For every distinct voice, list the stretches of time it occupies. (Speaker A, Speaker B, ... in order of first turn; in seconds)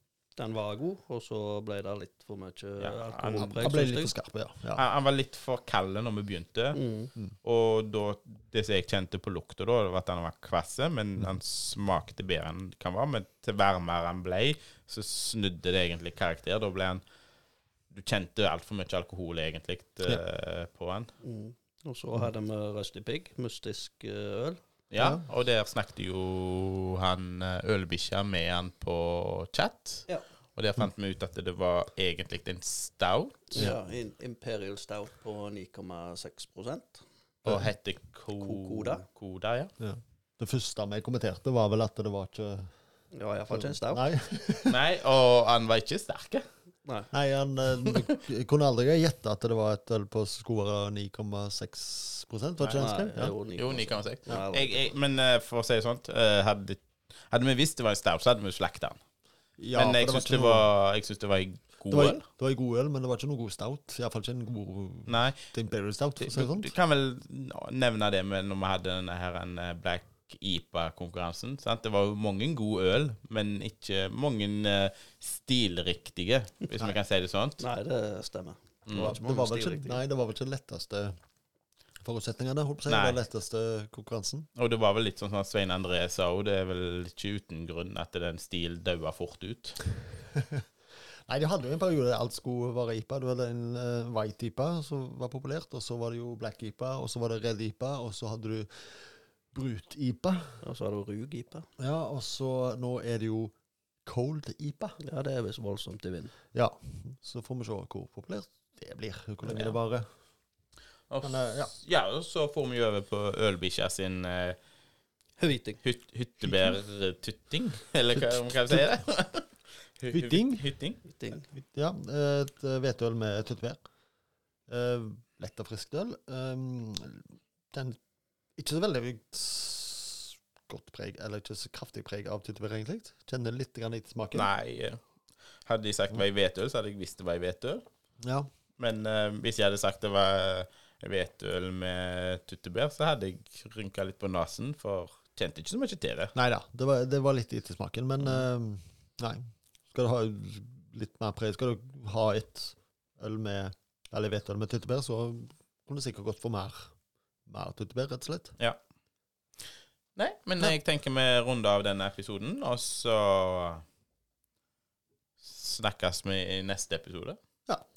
Speaker A: 0.4-4.1, 6.7-7.1, 21.2-24.6, 33.5-37.0, 38.4-39.0, 43.1-44.0, 46.8-47.1, 52.7-55.0, 77.6-80.0, 100.6-101.7, 105.0-106.3, 115.4-115.8, 121.0-121.5
Speaker B: 2.8-3.7, 4.7-6.8, 7.4-17.0, 17.9-21.1, 24.9-33.7, 37.5-39.7, 44.7-46.5, 52.6-52.8, 53.5-59.0, 59.7-62.2, 65.1-65.4, 66.2-77.6, 78.9-79.2, 82.9-83.2, 84.5-89.8, 111.1-114.6, 115.8-121.0, 134.3-135.0, 135.7-137.8, 138.8-146.3, 160.2-163.8, 165.4-167.4
Speaker C: 3.3-4.8, 25.0-25.2, 39.8-42.7, 43.5-44.8, 47.1-53.3, 59.6-60.7, 61.9-66.7, 79.0-81.2, 82.0-84.5, 90.3-90.6, 91.3-100.6, 101.8-103.5, 104.0-105.0, 106.5-110.1, 111.2-111.7, 118.1-118.8, 120.1-120.6, 121.5-123.8, 124.7-128.0, 128.6-134.5, 138.2-138.5, 146.3-156.9, 157.5-158.6